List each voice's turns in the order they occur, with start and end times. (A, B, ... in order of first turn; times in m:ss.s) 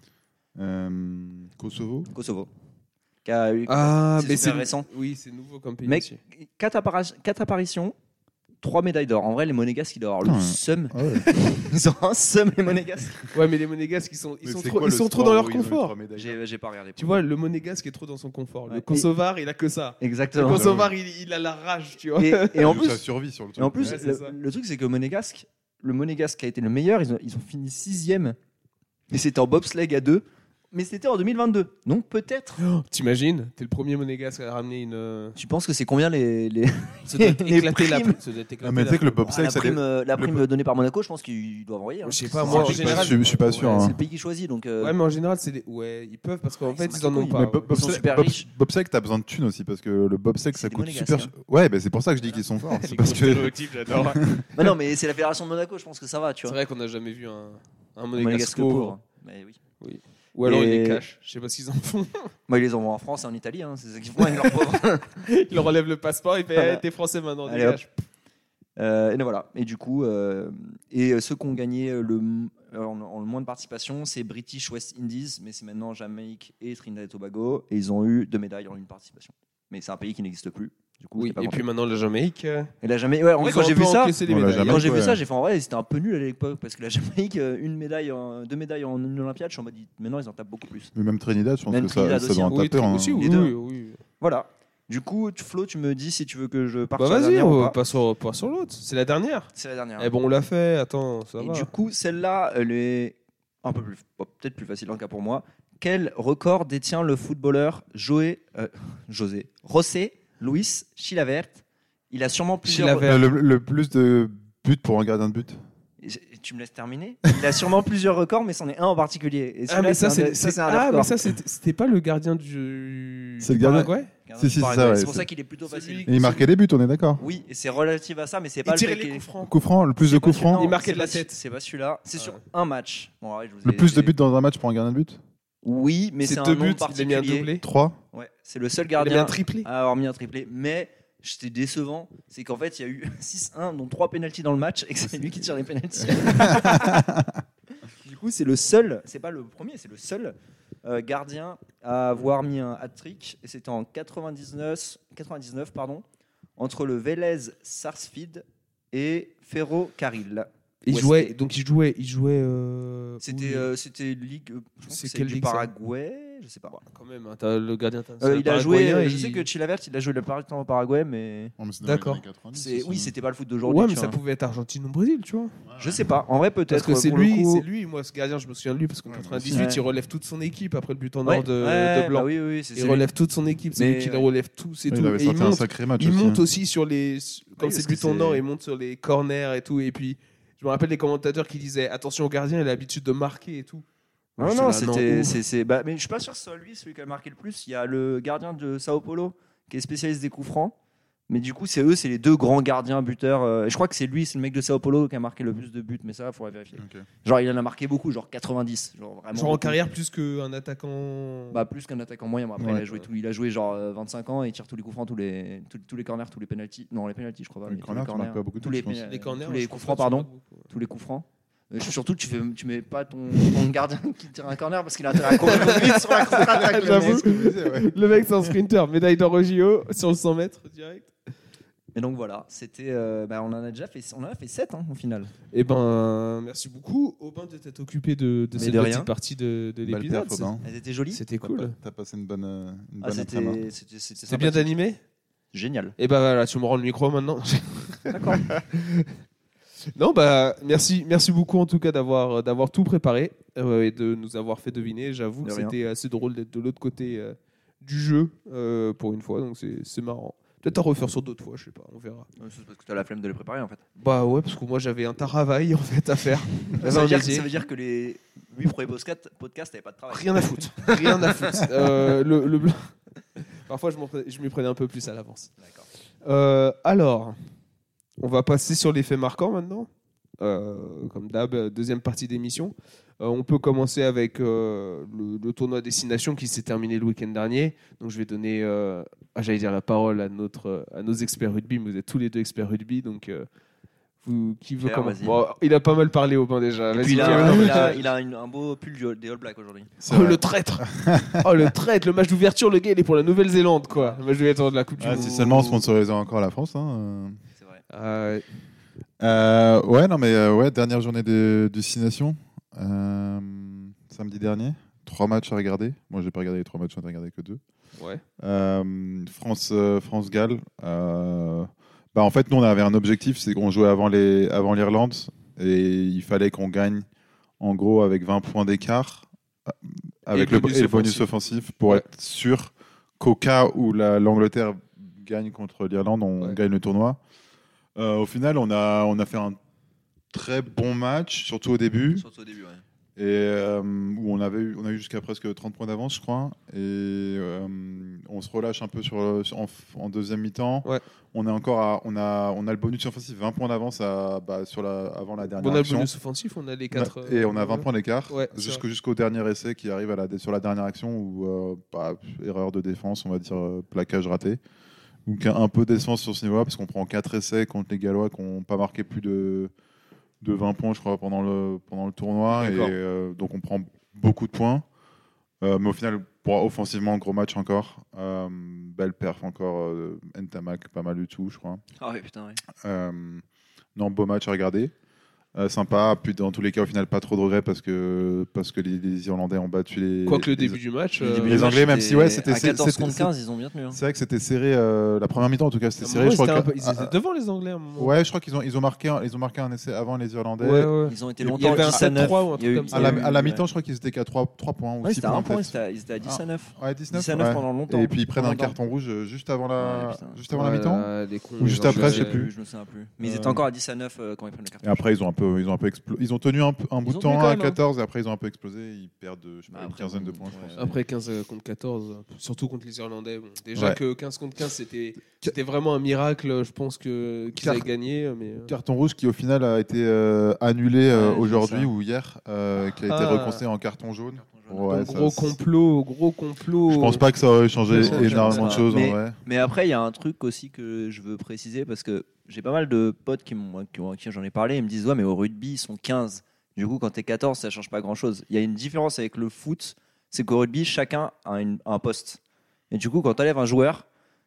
0:00.6-0:02.1 A
0:02.1-0:02.5 B
0:03.2-0:04.9 B
0:03.7-0:06.2 C
0:05.8-0:07.9 B
0:08.6-0:13.3 B
0:10.2-0:11.3 A
0:13.3-0:15.9 C
0:14.4-0:16.4 A
0:16.1-0:17.2 B
0:17.0-0:22.8 C
0:18.7-0:19.1 B
0:20.0-0:20.7 B
0:20.5-0:20.9 A
0:22.2-0:23.0 B
0:22.6-0:24.0 A
0:23.6-0:28.4 B
0:23.8-0:24.3 C
0:29.1-0:32.6 B
0:32.6-0:35.4 C
0:35.4-0:38.2 B
0:37.1-0:39.2 C
0:38.6-0:40.4 A
0:39.2-0:44.9 B
0:42.0-0:43.9 C
0:42.4-0:44.0 A
0:44.8-0:47.6 C
0:46.6-0:48.5 B
0:47.3-0:54.5 A
0:50.5-0:51.3 B
0:52.3-0:52.8 B
0:52.8-0:54.4 C
0:54.5-0:56.6 B
0:56.4-0:58.9 C
0:58.2-0:59.6 B
0:59.8-1:02.3 C
1:00.4-1:01.0 B
1:02.5-1:05.2 B
1:05.2-1:07.8 C
1:06.6-1:06.8 B
1:07.4-1:07.8 B
1:08.8-1:21.6 B
1:21.2-1:22.7 C
1:22.8-1:30.9 B
1:23.4-1:24.9 C
1:24.2-1:25.2 A
1:30.9-1:33.3 A
1:31.7-1:33.5 B
1:32.5-1:34.0 C
1:34.2-1:37.8 B
1:37.0-1:41.7 C
1:39.5-1:40.1 B
1:41.4-1:53.2 B
1:52.6-1:53.3 C
1:53.0-1:55.6 A
1:56.0-2:01.3 B
1:59.7-2:04.1 C
2:03.4-2:05.3 A
2:04.2-2:06.2 B
2:05.6-2:06.4 C
2:06.0-2:07.2 A
2:07.2-2:09.2 B
2:08.6-2:09.5 C
2:09.4-2:10.7 A
2:10.0-2:14.1 B
2:10.5-2:11.4 C
2:13.6-2:15.2 A
2:15.6-2:17.5 B
2:16.2-2:17.6 C
2:17.6-2:18.0 A
2:18.1-2:27.0 B
2:19.0-2:19.7 C
2:26.2-2:27.4 A
2:26.3-2:26.6 C
2:27.8-2:36.0 B
2:36.6-2:41.3 B
2:40.8-2:43.7 C
2:43.2-2:46.8 B
2:44.9-2:45.7 C
2:46.8-2:49.5 C
2:48.2-2:51.5 B
2:51.6-2:53.1 A
2:51.8-2:52.2 C
2:52.5-2:54.2 B
2:53.6-2:55.6 C
2:55.7-2:55.9 A
2:55.8-2:57.6 B
2:56.7-3:13.8 C
2:59.1-2:59.7 A
2:59.5-2:59.8 B
3:01.2-3:03.1 B
3:03.8-3:04.3 B
3:04.9-3:06.4 A
3:07.6-3:08.4 B
3:14.4-3:15.4 C
3:14.4-3:20.7 B
3:21.3-3:29.8 B
3:26.8-3:27.0 A
3:29.3-3:31.6 C
3:31.5-3:47.3 B
3:32.6-3:32.8 A
3:37.7-3:39.0 A
3:39.0-3:40.7 C
3:45.3-3:51.1 C
3:45.6-3:48.5 A
3:51.9-3:55.3 B
3:55.5-4:00.5 C
3:58.5-3:59.1 B
3:59.8-4:00.6 A
4:00.6-4:01.2 B
4:01.1-4:01.7 C
4:01.4-4:03.6 A
4:03.0-4:04.7 B
4:04.3-4:05.0 C
4:05.5-4:05.9 B
4:06.0-4:09.1 C
4:08.1-4:08.5 B
4:09.9-4:22.3 C
4:15.4-4:15.7 B
4:22.4-4:23.8 B
4:24.0-4:27.5 C
4:26.8-4:31.6 B
4:30.1-4:35.5 C
4:35.6-4:35.8 B
4:36.2-4:37.4 C
4:38.2-4:39.9 C
4:40.4-4:53.4 C
4:54.2-4:58.0 C
4:54.8-4:55.4 B
4:56.9-4:59.9 B
4:57.1-4:58.0 A
5:00.0-5:01.7 A
5:00.1-5:00.9 C
5:01.4-5:05.8 C
5:03.9-5:04.2 B
5:05.0-5:07.4 A
5:07.6-5:07.8 B
5:07.9-5:08.4 C
5:09.2-5:17.6 A
5:18.0-5:18.2 C
5:18.4-5:27.0 A
5:27.6-5:37.2 A
5:30.3-5:31.3 C
5:38.0-5:39.6 A
5:40.3-5:42.2 A
5:42.1-5:42.8 B
5:43.2-5:56.1 A
5:55.6-5:58.8 C
5:56.9-6:04.6 A
6:05.2-6:09.7 A
6:10.4-6:14.8 A
6:12.6-6:12.9 C
6:15.6-6:21.8 A
6:22.0-6:22.6 B
6:22.8-6:23.4 A
6:24.0-6:24.9 A
6:25.5-6:33.3 A
6:30.2-6:31.8 C
6:31.2-6:34.0 B
6:33.9-6:37.1 A
6:36.0-6:38.1 C
6:38.0-6:42.4 A
6:40.6-6:43.3 C
6:41.0-6:43.6 B
6:42.9-6:52.5 A
6:45.0-6:48.8 B
6:49.8-6:50.4 B
6:50.5-6:52.4 C
6:51.7-6:55.0 B
6:53.2-6:53.6 A
6:54.8-7:01.0 A
6:57.0-6:57.8 B
6:59.7-7:00.9 B
7:00.8-7:08.7 C
7:07.5-7:07.9 A
7:08.7-7:15.6 A
7:11.1-7:11.9 B
7:13.0-7:13.6 C
7:14.4-7:14.9 B
7:14.9-7:17.3 C
7:16.9-7:19.4 A
7:17.9-7:18.9 C
7:17.9-7:32.4 B
7:32.9-7:34.0 B